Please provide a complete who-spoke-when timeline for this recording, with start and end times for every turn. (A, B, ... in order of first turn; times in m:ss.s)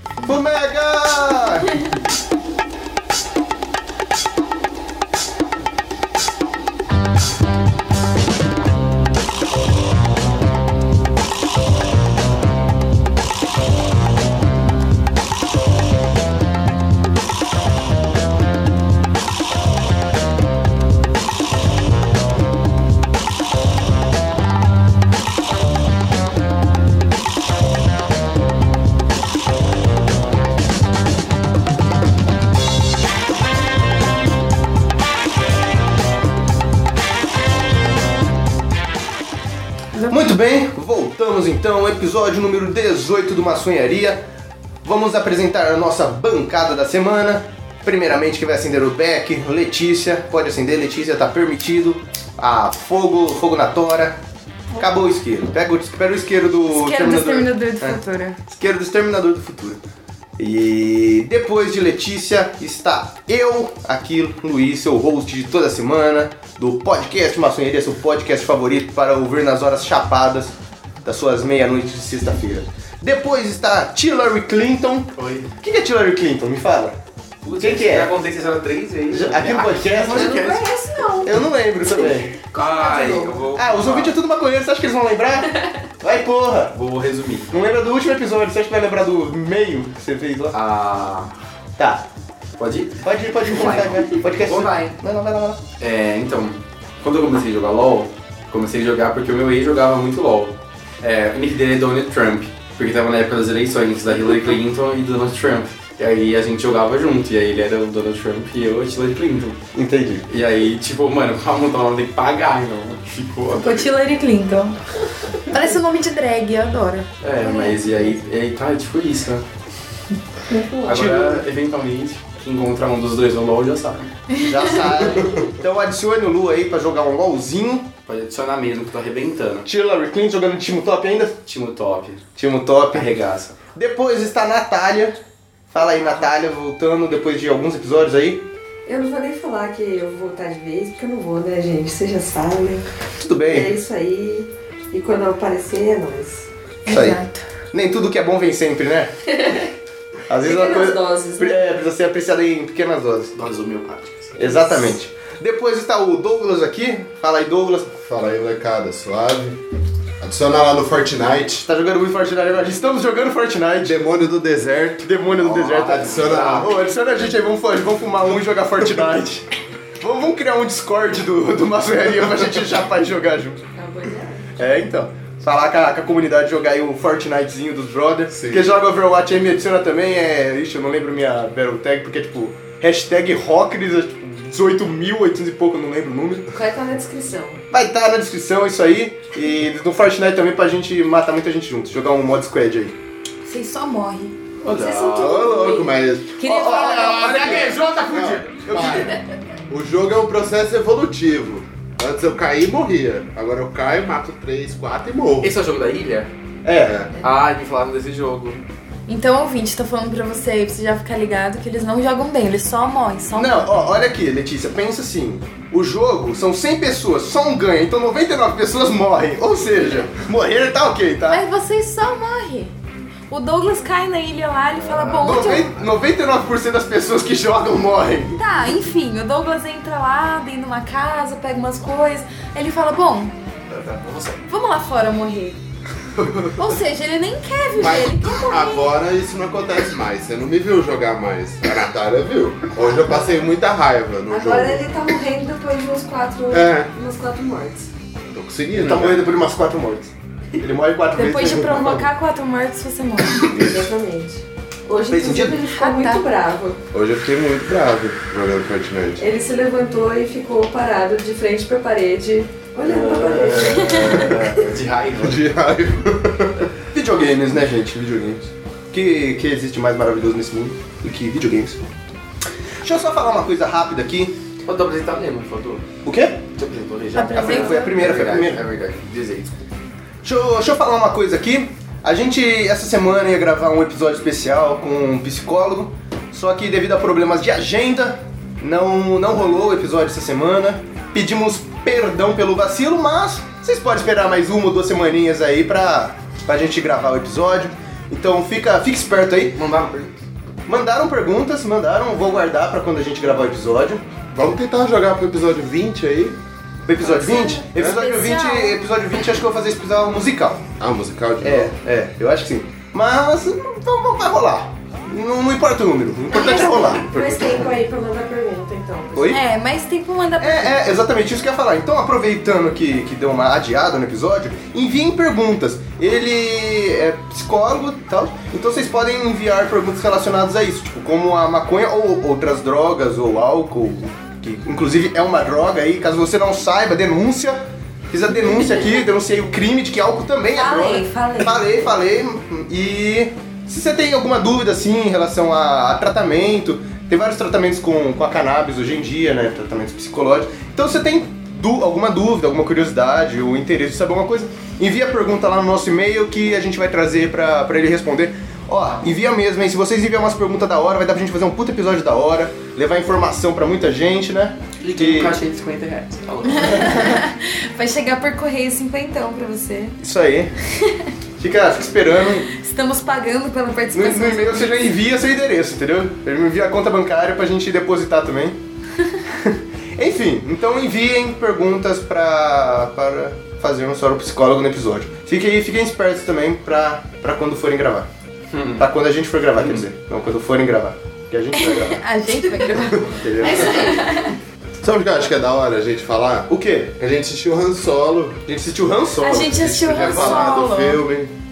0:00.2-0:01.8 A
0:40.0-0:40.2 B
0:40.1-0:44.3 A
0:44.8-0:54.2 A
0:54.8-0:59.8 A
0:56.7-0:58.4 B
1:00.4-1:17.0 A
1:15.2-1:15.5 C
1:17.4-1:20.8 C
1:17.6-1:18.1 A
1:19.1-1:20.4 A
1:20.1-1:21.4 D
1:21.2-1:22.4 A
1:21.9-1:23.5 D
1:22.6-1:24.2 C
1:23.5-1:26.8 A
1:26.7-1:27.6 C
1:27.5-1:30.6 A
1:30.5-1:31.3 C
1:31.8-1:32.0 A
1:32.6-1:35.0 C
1:33.0-1:35.6 A
1:35.8-1:49.6 C
1:49.7-1:50.3 A
1:50.3-1:53.9 C
1:53.5-1:54.8 B
1:55.5-1:57.1 B
1:57.2-1:59.4 C
1:57.4-1:58.1 D
2:00.5-2:01.3 D
2:00.8-2:04.1 C
2:00.9-2:01.3 A
2:04.3-2:04.9 B
2:04.4-2:07.9 A
2:08.1-2:09.7 C
2:09.6-2:11.4 A
2:11.5-2:12.2 C
2:12.4-2:13.1 A
2:12.9-2:13.6 C
2:13.7-2:15.2 A
2:15.7-2:18.4 A
2:18.9-2:22.8 D
2:23.2-2:23.7 A
2:23.5-2:26.5 D
2:26.9-2:27.4 B
2:26.9-2:29.1 A
2:29.4-2:29.7 D
2:30.3-2:33.4 A
2:30.4-2:31.7 D
2:33.4-2:34.8 C
2:34.4-2:37.9 A
2:38.0-2:39.6 E
2:40.2-2:41.7 E
2:41.6-2:44.0 A
2:43.8-2:45.1 E
2:45.0-2:49.5 A
2:45.4-2:46.8 C
2:45.8-2:46.7 E
2:50.0-2:53.6 A
2:53.8-2:54.5 D
2:54.6-3:06.5 A
2:58.3-2:58.8 E
3:06.5-3:07.6 D
3:07.7-3:13.0 A
3:13.5-3:14.4 B
3:14.6-3:15.6 C
3:14.7-3:15.9 D
3:15.2-3:15.9 A
3:15.5-3:25.5 E
3:16.4-3:17.6 B
3:16.4-3:17.7 A
3:16.7-3:18.9 C
3:18.7-3:19.2 A
3:25.4-3:26.3 C
3:26.6-3:27.0 A
3:26.8-3:27.2 E
3:27.2-3:28.6 C
3:29.1-3:33.8 B
3:33.3-3:41.4 A
3:41.3-3:42.7 B
3:43.3-3:45.8 B
3:45.1-3:48.4 A
3:48.4-3:53.3 B
3:53.7-3:54.4 C
3:54.5-3:55.6 B
3:56.2-3:56.7 E
3:56.6-3:58.8 B
3:57.8-4:04.9 E
4:02.8-4:03.4 D
4:04.3-4:07.9 D
4:06.5-4:06.9 E
4:08.3-4:09.3 E
4:08.7-4:12.0 A
4:11.2-4:13.5 B
4:13.4-4:13.9 E
4:13.5-4:16.8 D
4:15.1-4:15.6 A
4:15.6-4:16.2 B
4:16.9-4:19.2 E
4:19.2-4:24.4 D
4:22.9-4:25.5 C
4:23.0-4:23.8 A
4:23.8-4:24.2 B
4:25.2-4:26.7 E
4:26.9-4:31.9 A
4:32.8-4:34.4 A
4:34.6-4:35.9 C
4:36.0-4:36.4 A
4:36.6-4:39.7 C
4:37.1-4:38.2 B
4:37.3-4:38.6 A
4:40.2-4:59.6 A
4:59.5-5:00.2 C
5:00.7-5:04.0 A
5:04.3-5:06.4 E
5:06.9-5:10.6 A
5:07.0-5:08.8 B
5:10.8-5:11.7 E
5:11.4-5:17.7 A
5:16.3-5:19.3 D
5:19.1-5:19.4 A
5:19.3-5:20.9 B
5:20.4-6:05.4 A
5:38.4-5:38.9 B
5:40.6-5:41.6 B
6:04.8-6:07.0 C
6:06.5-6:10.0 B
6:06.6-6:07.2 A
6:10.0-6:10.6 A
6:10.7-6:11.1 B
6:11.4-6:12.5 A
6:12.5-6:14.9 B
6:13.9-6:18.6 A
6:19.4-6:28.1 A
6:28.5-6:28.8 C
6:28.8-6:32.0 A
6:31.6-6:34.3 B
6:32.9-6:33.6 C
6:33.1-6:33.8 A
6:33.4-6:34.4 D
6:34.8-6:38.4 E
6:36.5-6:36.9 A
6:38.5-6:40.5 A
6:39.2-6:41.0 B
6:39.5-6:41.3 E